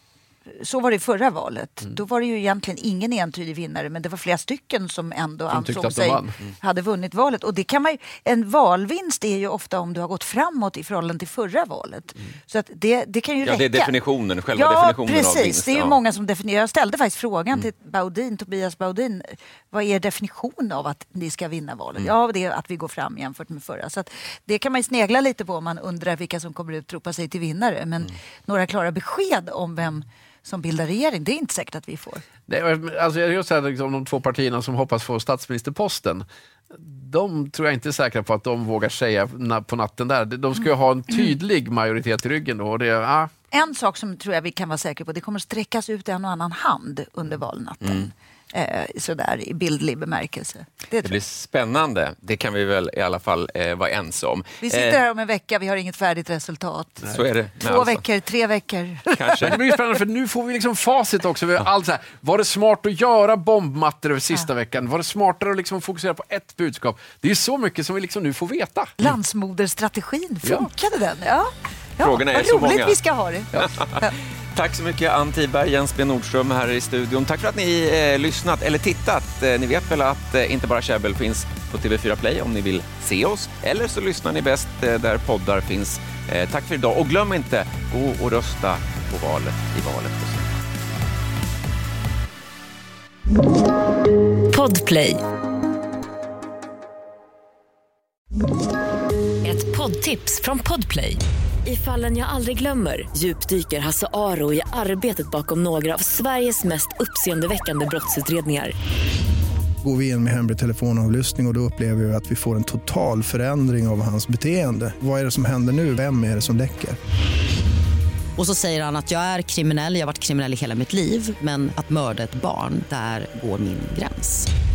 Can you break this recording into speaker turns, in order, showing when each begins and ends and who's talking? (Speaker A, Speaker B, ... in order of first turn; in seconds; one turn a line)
Speaker A: 0.5-13.9
Speaker B: 5.5-6.3
Speaker C: 13.4-15.9
Speaker A: 14.5-32.3
Speaker B: 32.5-43.3
Speaker A: 43.5-51.1
Speaker C: 47.8-48.1
Speaker C: 51.0-55.0
Speaker A: 54.6-59.6
Speaker C: 57.0-58.0
Speaker C: 59.1-59.6
Speaker B: 59.4-69.0
Speaker A: 69.0-74.1
Speaker C: 72.0-73.0
Speaker C: 74.5-90.5
Speaker D: 94.5-95.2
Speaker D: 99.4-108.7
Speaker E: 109.8-117.0
Speaker F: 118.4-124.5